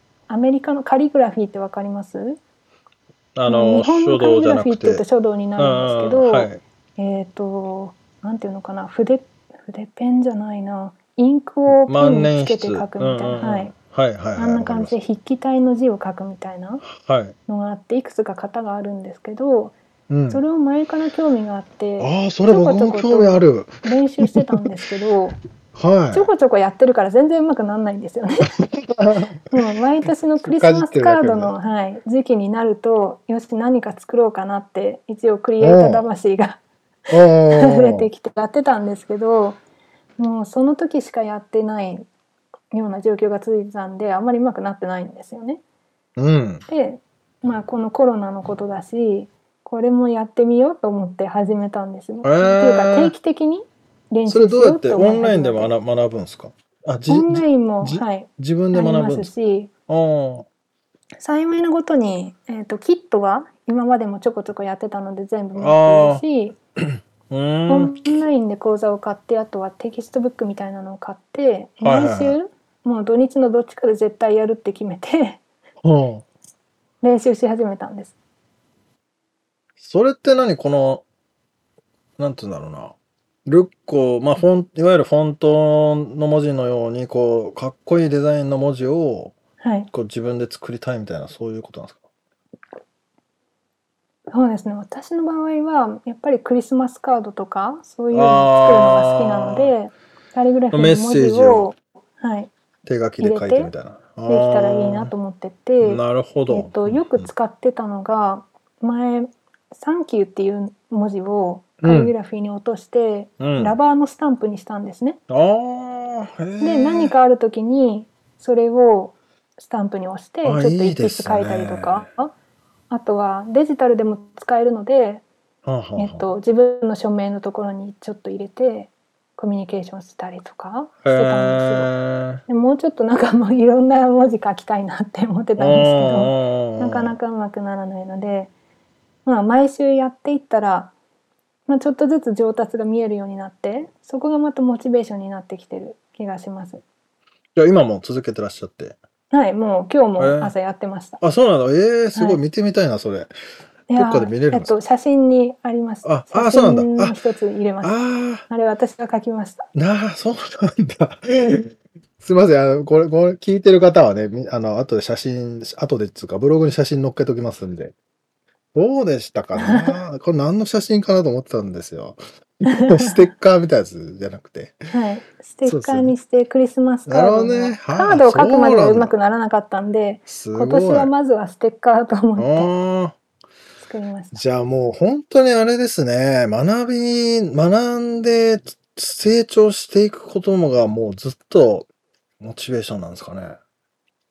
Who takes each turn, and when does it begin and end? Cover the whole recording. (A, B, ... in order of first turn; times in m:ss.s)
0:00.3-0:02.4 A
0:03.4-0:05.0 B
0:03.5-0:13.7 A
0:05.6-0:06.6 B
0:11.7-0:15.0 B
0:14.4-0:16.8 A
0:16.8-0:17.4 B
0:17.5-0:19.8 A
0:20.1-0:20.4 B
0:20.3-0:25.4 A
0:22.0-0:24.6 B
0:25.7-0:26.3 B
0:26.1-0:28.6 A
0:28.6-0:29.5 B
0:29.5-0:36.6 A
0:30.4-0:31.5 B
0:35.6-0:36.1 B
0:37.1-0:38.1 B
0:37.5-0:39.6 A
0:40.2-0:42.1 A
0:42.7-0:45.6 A
0:46.2-0:46.6 B
0:46.7-0:55.7 A
0:52.2-0:53.1 B
0:54.2-0:59.3 B
0:57.1-0:59.7 A
0:59.9-1:00.5 B
1:01.2-1:06.5 A
1:05.6-1:06.2 B
1:06.8-1:08.1 B
1:07.7-1:15.4 A
1:11.8-1:12.4 B
1:15.8-1:16.2 B
1:17.0-1:18.1 A
1:19.8-1:21.0 B
1:22.2-1:29.4 B
1:29.6-1:29.9 A
1:29.9-1:32.0 B
1:34.3-1:42.5 A
1:38.1-1:39.7 B
1:40.7-1:41.7 B
1:42.8-1:45.1 B
1:43.2-1:43.7 A
1:44.2-1:55.2 A
1:45.8-1:47.3 B
1:51.8-1:52.1 B
1:53.4-1:53.8 B
1:55.3-1:57.2 B
1:56.6-2:02.3 A
2:00.4-2:02.1 B
2:02.9-2:05.2 A
2:05.6-2:06.3 B
2:06.0-2:11.9 A
2:11.0-2:12.4 B
2:12.5-2:18.5 A
2:15.6-2:17.2 B
2:19.2-2:20.9 A
2:21.7-2:26.8 A
2:27.5-2:29.0 B
2:29.3-2:31.2 A
2:30.2-2:30.5 B
2:31.2-2:33.3 B
2:32.1-2:32.4 A
2:33.9-2:37.9 A
2:33.9-2:34.7 B
2:36.0-2:37.2 B
2:37.8-2:38.4 B
2:38.5-2:39.7 A
2:39.7-2:47.9 B
2:48.7-2:54.9 B
2:49.6-2:50.0 A
2:52.7-2:53.2 A
2:54.9-3:02.7 A
2:55.6-2:56.1 B
2:57.0-2:59.1 B
3:00.3-3:01.1 B
3:02.4-3:03.2 B
3:03.8-3:04.4 A
3:04.3-3:11.9 B
3:12.4-3:13.6 B